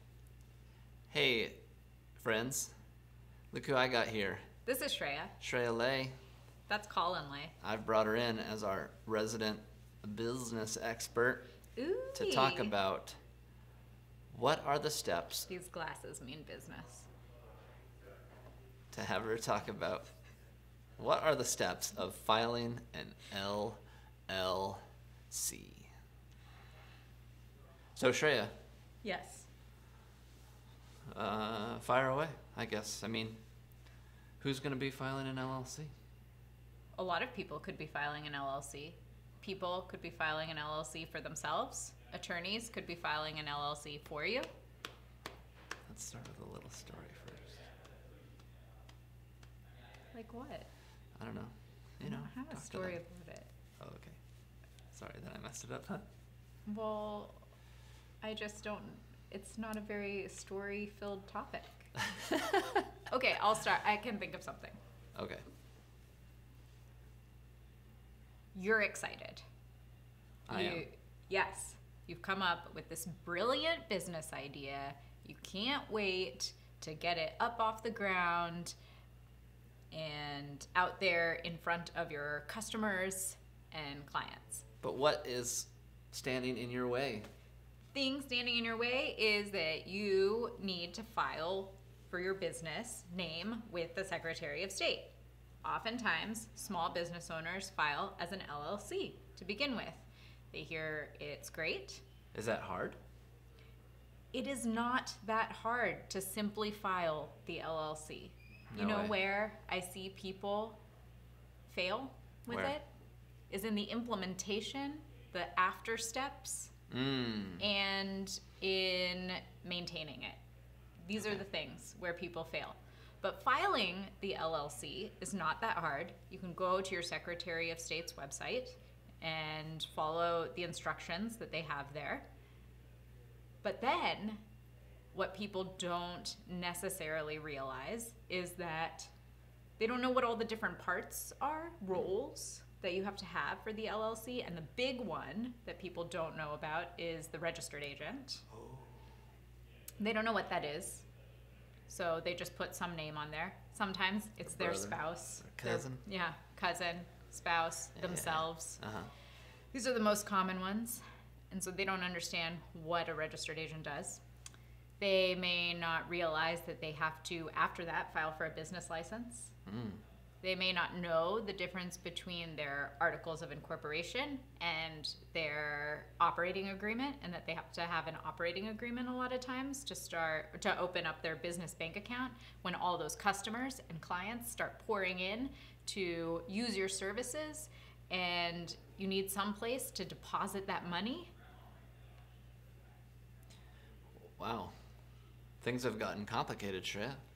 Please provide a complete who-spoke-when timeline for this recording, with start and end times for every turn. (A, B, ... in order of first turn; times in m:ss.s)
0:01.1-0:01.6 A
0:02.2-0:02.7 A
0:03.5-0:04.5 A
0:04.7-0:05.4 B
0:05.4-0:06.2 A
0:06.7-0:07.6 B
0:07.6-0:11.5 A
0:11.8-0:12.8 B
0:12.2-0:13.2 A
0:14.3-0:15.5 A
0:15.5-0:17.1 B
0:18.9-0:20.1 A
0:21.0-0:25.9 A
0:28.0-0:28.5 A
0:29.0-0:29.5 B
0:31.1-0:33.4 A
0:34.4-0:35.9 A
0:37.0-0:44.5 B
0:45.9-0:47.6 A
0:50.1-0:50.7 B
0:51.2-0:53.0 A
0:52.0-0:53.5 B
0:53.8-0:54.2 A
0:54.9-0:56.0 A
0:56.7-0:57.4 B
0:58.2-1:02.0 B
1:02.6-1:04.8 B
1:05.2-1:05.4 A
1:08.6-1:09.4 B
1:10.5-1:10.9 A
1:10.5-1:18.8 B
1:19.9-1:24.6 B
1:24.8-1:27.3 A
1:27.9-1:42.0 B
1:42.3-1:43.0 A
1:44.3-1:50.8 B
1:48.7-1:49.2 A
1:51.7-1:52.9 B
1:52.5-1:52.8 A
1:53.5-1:56.7 B
1:56.9-1:57.6 A
1:57.6-2:00.4 B
2:01.0-2:12.3 B
2:13.6-2:14.4 B
2:15.1-2:19.1 B
2:19.8-2:28.4 B
2:28.5-2:28.9 A
2:30.0-2:31.1 B
2:31.9-2:38.8 B
2:34.5-2:36.0 A
2:38.0-2:39.1 A
2:39.7-2:44.2 B
2:45.0-2:49.6 B
2:49.7-2:50.0 A
2:50.4-3:11.3 B
3:14.2-3:14.7 A
3:15.6-3:17.2 A